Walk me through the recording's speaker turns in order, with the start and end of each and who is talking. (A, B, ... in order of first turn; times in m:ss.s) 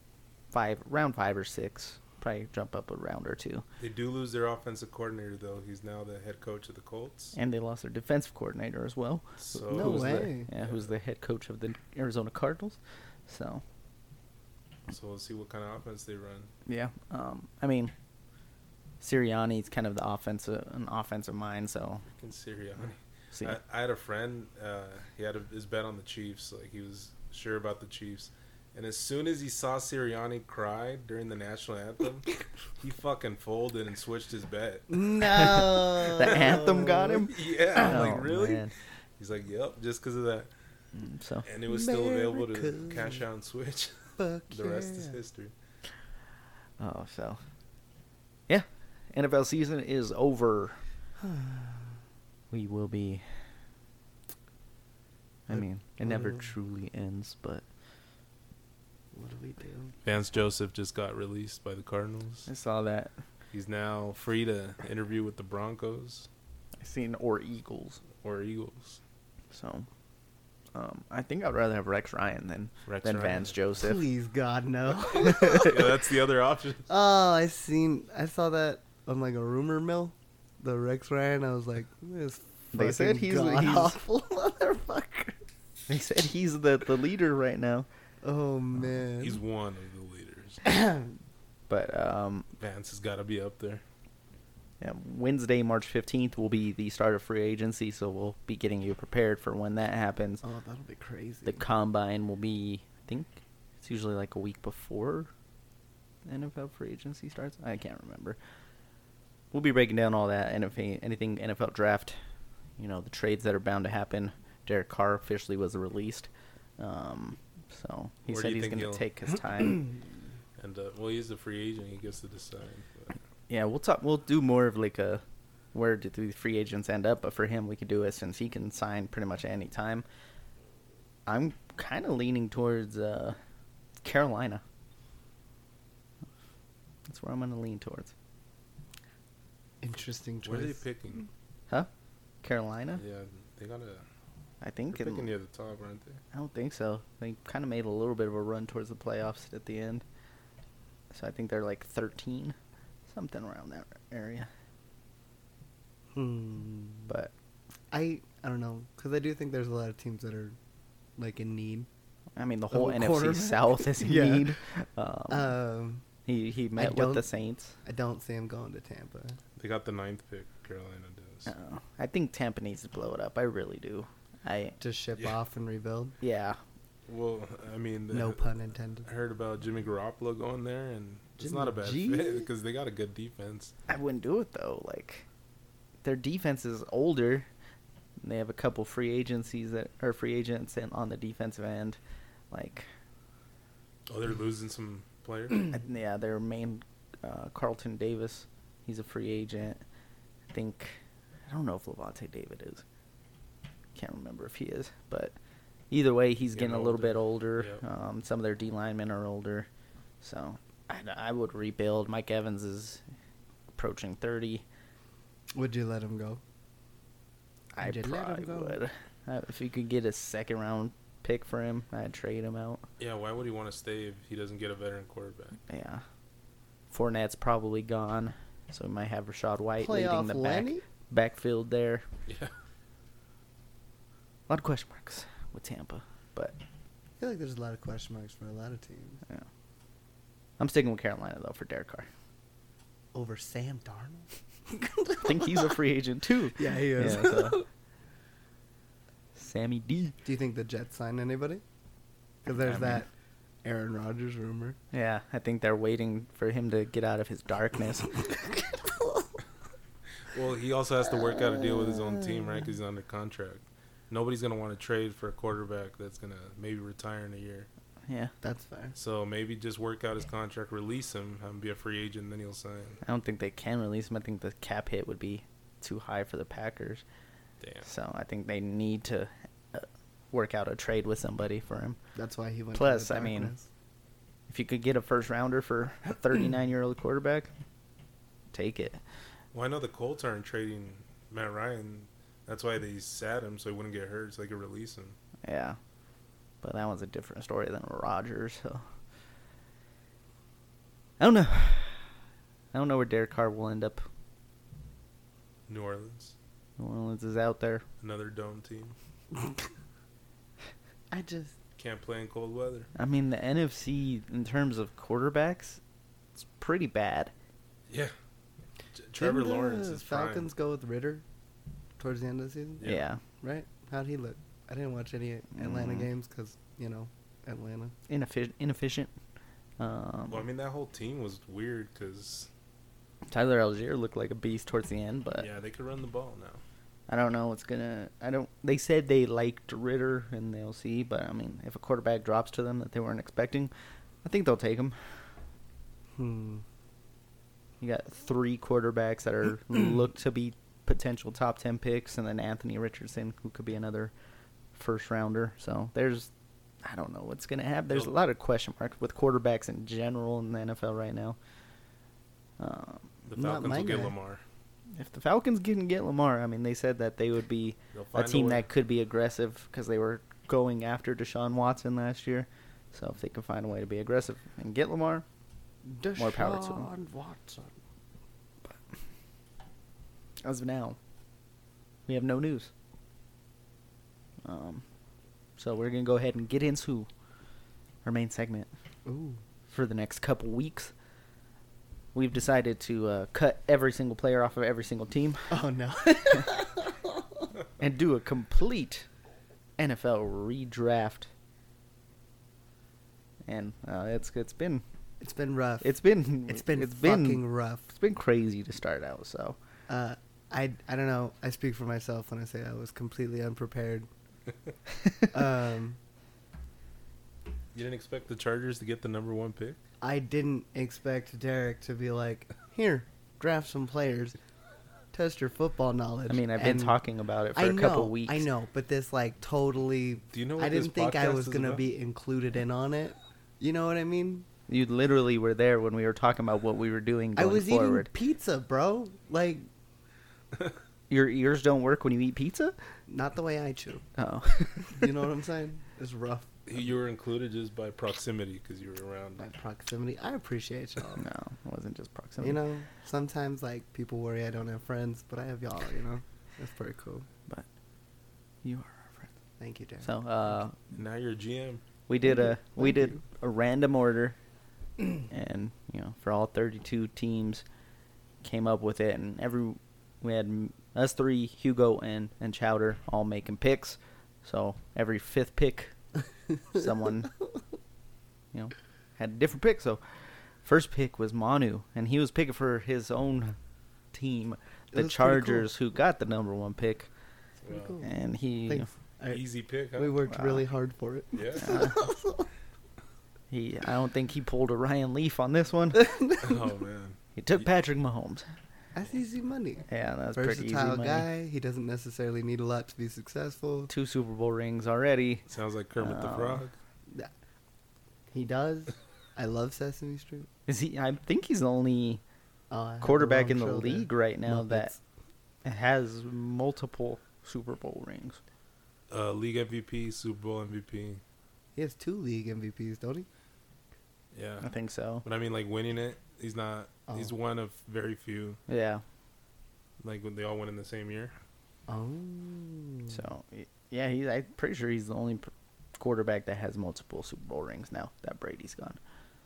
0:00.5-0:03.6 A
0:03.8-0:07.4 B
0:07.3-0:13.6 A
0:09.4-0:10.8 B
0:09.7-0:10.5 C
0:14.9-0:16.5 B
0:16.7-0:17.9 A
0:19.0-0:22.0 A
0:22.1-0:35.0 B
0:34.9-0:38.1 C
0:35.2-0:38.7 A
0:36.1-0:38.7 B
0:39.2-0:40.5 B
0:40.9-0:41.5 A
0:41.4-0:44.0 B
0:41.7-0:43.2 C
0:44.2-0:45.2 C
0:44.5-0:45.5 B
0:46.8-0:47.4 A
0:48.5-0:50.8 A
0:51.2-0:51.9 C
0:52.5-0:53.2 A
0:55.5-0:57.6 A
0:55.5-0:56.5 C
0:59.1-0:59.9 C
1:00.0-1:02.5 B
1:02.5-1:03.1 A
1:03.5-1:06.3 B
1:06.8-1:08.0 A
1:08.2-1:09.0 B
1:09.5-1:09.9 A
1:10.7-1:14.0 A
1:12.9-1:13.6 B
1:13.8-1:16.0 C
1:15.2-1:16.9 B
1:16.9-1:25.4 C
1:22.7-1:23.9 A
1:25.9-1:27.9 A
1:28.2-1:29.4 C
1:29.2-1:30.6 B
1:30.6-1:31.2 C
1:31.7-1:32.5 A
1:32.6-1:33.8 B
1:34.8-1:40.4 A
1:40.4-1:41.6 C
1:41.4-1:45.3 A
1:46.2-1:48.4 A
1:49.5-1:52.2 A
1:52.8-1:59.9 A
1:58.3-1:59.0 B
2:00.6-2:03.1 B
2:03.5-2:05.2 A
2:05.7-2:10.0 A
2:11.2-2:13.4 A
2:14.0-2:14.6 A
2:17.1-2:18.1 A
2:19.8-2:20.8 C
2:20.4-2:21.3 B
2:22.4-2:23.0 A
2:23.0-2:24.0 B
2:24.6-2:25.3 A
2:24.9-2:26.2 B
2:26.3-2:30.0 A
2:31.1-2:32.6 A
2:33.1-2:34.5 A
2:36.1-2:37.1 C
2:37.9-2:40.6 C
2:41.2-2:41.9 C
2:42.4-2:45.6 A
2:42.7-2:44.6 C
2:45.3-2:46.0 C
2:46.3-2:47.8 A
2:46.8-2:47.3 C
2:47.8-2:49.4 C
2:49.6-2:51.5 B
2:51.5-2:54.8 A
2:54.8-2:56.2 C
2:56.2-2:56.6 A
2:57.1-2:58.4 B
2:58.1-2:59.1 C
2:59.0-3:03.7 B
3:01.4-3:02.5 C
3:03.9-3:05.3 A
3:06.0-3:07.5 A
3:08.2-3:12.0 A
3:12.5-3:12.9 A
3:14.1-3:15.7 B
3:15.7-3:19.8 A
3:20.5-3:22.8 A
3:23.9-3:25.3 A
3:25.9-3:29.7 A
3:26.6-3:27.8 B
3:30.2-3:33.0 A
3:33.8-3:34.6 A
3:35.5-3:36.4 C
3:37.7-3:42.8 A
3:37.8-3:38.8 C
3:43.0-3:45.6 B
3:45.7-3:46.0 A
3:46.9-3:52.0 A
3:49.8-3:50.8 C
3:52.3-3:52.5 B
3:54.5-3:56.6 A
3:57.2-3:59.2 C
4:00.6-4:02.1 A
4:03.1-4:05.7 C
4:05.2-4:07.6 A
4:06.6-4:07.6 C
4:09.4-4:10.2 A
4:10.2-4:11.6 C
4:12.4-4:13.1 C
4:12.6-4:13.0 B
4:13.6-4:14.8 C
4:14.9-4:18.7 A
4:20.3-4:27.7 B
4:28.1-4:28.3 A
4:28.4-4:28.9 C
4:29.0-4:33.0 B
4:33.0-4:37.0 A
4:37.6-4:37.9 B
4:37.8-4:42.0 A
4:42.2-4:43.7 C
4:42.7-4:43.5 A
4:44.5-4:47.5 A
4:48.5-4:49.0 A
4:49.5-4:55.2 B
4:55.4-4:55.8 A
4:56.6-4:58.8 A
5:01.2-5:02.0 A
5:02.7-5:04.1 A
5:05.7-5:06.3 B
5:06.8-5:07.8 A
5:08.0-5:08.9 B
5:11.1-5:11.6 C
5:11.8-5:12.9 B
5:12.9-5:15.8 A
5:16.6-5:17.3 A
5:18.9-5:20.5 B
5:19.2-5:21.2 C
5:22.0-5:22.8 C
5:22.8-5:23.2 A
5:23.4-5:27.9 C
5:25.6-5:26.1 A
5:28.1-5:29.1 A
5:29.8-5:30.4 A
5:30.3-5:32.5 B
5:33.3-5:35.5 A
5:35.4-5:36.6 B
5:37.1-5:43.7 A
5:44.2-5:45.0 A
5:46.2-5:46.6 C
5:47.8-5:54.1 A
5:54.7-5:56.3 A
5:56.8-6:01.4 A
6:02.6-6:03.1 A
6:03.3-6:04.4 B
6:03.3-6:04.1 C
6:04.9-6:15.2 A
6:07.9-6:08.7 B
6:15.8-6:17.7 C
6:16.2-6:16.9 A
6:20.4-6:21.0 A
6:22.1-6:22.7 A
6:24.4-6:24.8 A
6:25.6-6:27.1 A
6:28.0-6:28.7 A
6:29.1-6:29.4 C
6:29.7-6:30.9 A
6:32.1-6:35.6 A
6:35.5-6:37.4 C
6:37.8-6:39.1 A
6:39.8-6:41.3 A
6:43.5-6:44.8 A
6:45.2-6:47.8 C
6:45.8-6:49.6 A
6:49.9-6:54.1 C
6:55.3-6:56.0 C
6:57.7-6:59.8 B
7:00.0-7:04.4 C
7:05.1-7:07.0 C
7:06.3-7:08.4 A
7:07.6-7:14.5 C
7:10.3-7:11.8 B
7:14.7-7:18.1 A
7:17.4-7:19.6 C
7:21.1-7:22.8 A
7:23.1-7:24.0 C
7:24.2-7:25.0 A
7:24.9-7:26.6 C
7:26.7-7:29.5 B
7:29.4-7:31.2 C
7:31.2-7:32.6 A
7:32.4-7:37.3 C
7:38.6-7:39.3 A
7:39.6-7:40.1 C
7:40.0-7:40.8 A
7:40.9-7:41.8 B
7:42.1-7:44.4 A
7:42.3-7:43.2 C
7:45.3-7:47.6 A
7:48.4-7:55.9 A
7:56.7-7:57.3 A
7:58.5-8:00.0 A
8:00.6-8:03.6 A
8:04.1-8:07.1 A
8:04.9-8:05.7 C
8:07.6-8:08.0 B
8:07.7-8:08.1 C
8:08.0-8:08.9 A
8:08.7-8:09.4 C
8:09.3-8:10.2 B
8:09.9-8:12.5 C
8:10.3-8:10.6 A
8:11.3-8:11.8 B
8:11.6-8:12.0 A
8:13.5-8:16.1 A
8:15.9-8:16.5 C
8:16.4-8:17.2 B
8:17.4-8:18.5 A
8:18.9-8:23.9 C
8:19.9-8:21.3 A
8:23.9-8:25.4 A
8:25.5-8:26.7 B
8:26.0-8:26.7 A
8:28.3-8:30.5 C
8:30.7-8:32.2 A
8:32.7-8:35.0 C
8:33.0-8:34.9 A
8:35.6-8:38.4 A
8:39.1-8:41.2 B
8:41.8-8:43.3 C
8:44.3-8:44.7 B
8:44.6-8:45.2 A
8:45.2-8:48.6 B
8:48.7-8:49.0 A
8:50.0-8:51.4 B
8:51.9-8:53.2 C
8:53.1-8:59.0 A